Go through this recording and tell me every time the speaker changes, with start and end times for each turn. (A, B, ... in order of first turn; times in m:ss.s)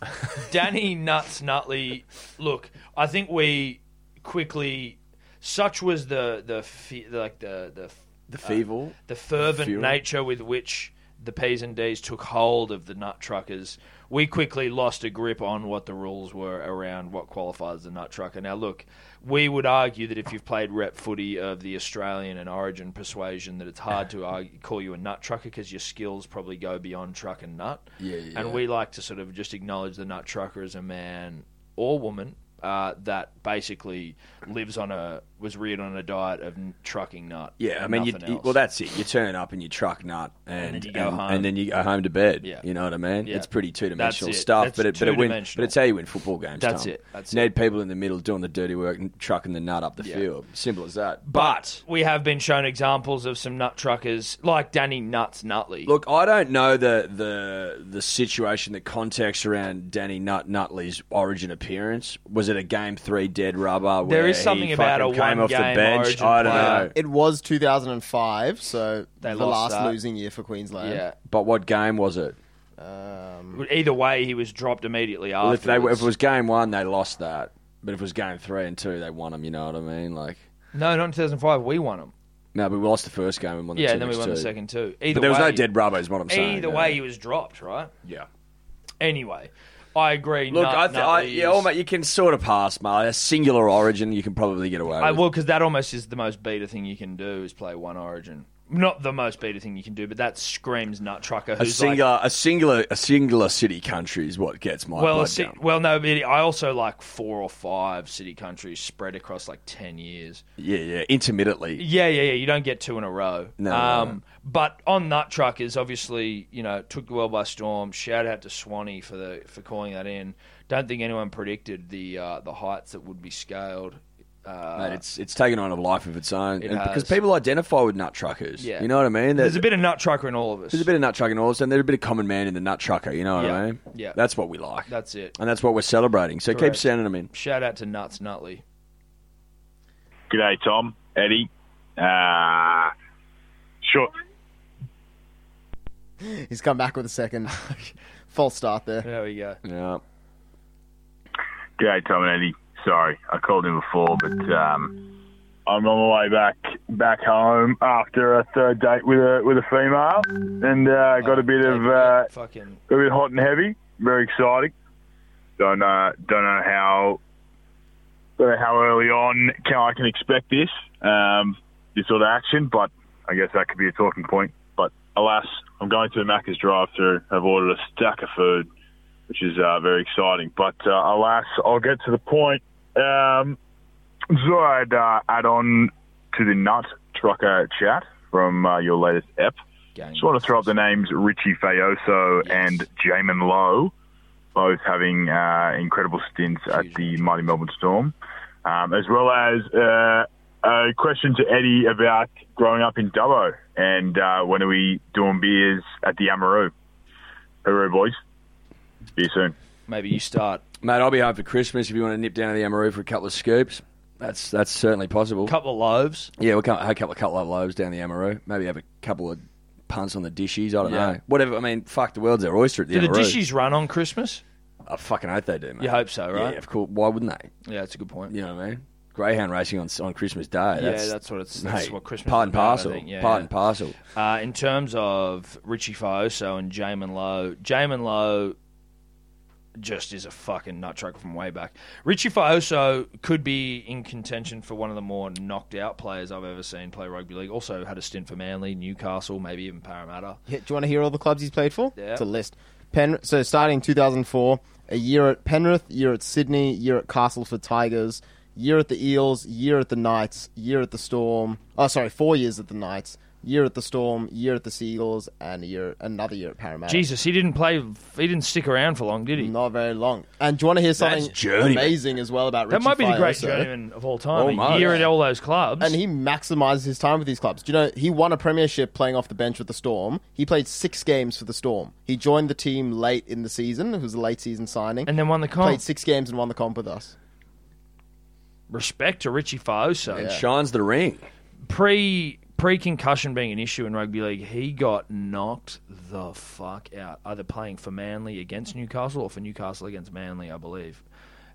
0:00.4-0:38.6 A
0:08.3-0:10.0 B
0:28.0-0:28.6 B
0:37.6-0:51.6 B
0:40.6-0:41.5 A
0:43.2-0:45.8 A
0:46.6-0:47.5 A
0:50.0-0:50.3 A
0:51.2-0:55.9 A
0:55.9-1:06.9 B
1:04.0-1:06.9 A
1:06.5-1:11.0 C
1:09.2-1:10.0 A
1:10.8-1:11.2 A
1:11.3-1:12.4 B
1:12.8-1:13.6 C
1:13.5-1:16.1 A
1:15.4-1:20.4 B
1:20.7-1:22.1 A
1:22.5-1:24.5 B
1:23.8-1:25.7 A
1:25.1-1:27.0 B
1:26.3-1:27.9 A
1:29.0-1:31.7 A
1:30.5-1:35.2 B
1:35.0-1:42.0 A
1:41.6-1:45.6 B
1:45.0-1:50.4 A
1:50.6-1:51.8 B
1:51.8-2:05.0 A
1:53.6-1:54.2 B
2:04.8-2:09.7 B
2:06.6-2:07.2 A
2:08.6-2:10.9 A
2:10.7-2:17.3 B
2:13.4-2:14.2 A
2:14.9-2:15.4 A
2:16.5-2:18.6 A
2:20.3-2:22.9 D
2:23.8-2:24.1 D
2:26.2-2:27.7 C
2:28.3-2:29.1 C
2:29.0-2:29.6 A
2:29.6-2:30.0 B
2:31.8-2:34.9 D
2:35.7-2:42.3 D
2:41.2-2:42.8 A
2:42.9-2:44.7 D
2:45.6-2:47.2 D
2:48.4-2:58.7 D
2:59.3-3:03.6 D
3:04.3-3:09.6 D
3:10.0-3:10.7 A
3:10.2-3:13.9 D
3:12.4-3:12.9 A
3:14.6-3:26.7 D
3:16.7-3:17.4 A
3:27.6-3:28.2 D
3:29.2-3:29.5 D
3:29.9-3:30.6 A
3:30.8-3:35.5 B
3:35.5-3:36.3 A
3:36.4-3:43.4 B
3:40.8-3:41.2 A
3:42.9-3:44.4 A
3:44.9-3:47.5 B
3:45.8-3:46.6 A
3:47.6-3:48.3 A
3:48.3-3:54.0 B
3:50.8-3:53.5 A
3:54.1-3:58.6 A
3:59.8-4:10.4 A
4:10.5-4:27.1 C
4:12.0-4:12.2 A
4:26.9-4:29.5 A
4:29.4-4:33.7 C
4:31.0-4:32.0 B
4:32.7-4:36.0 A
4:34.4-4:35.0 B
4:34.7-4:35.1 C
4:35.8-4:47.2 C
4:45.1-4:45.8 A
4:48.7-4:50.3 A
4:50.1-4:51.3 B
4:50.2-4:50.4 C
4:51.7-5:01.0 A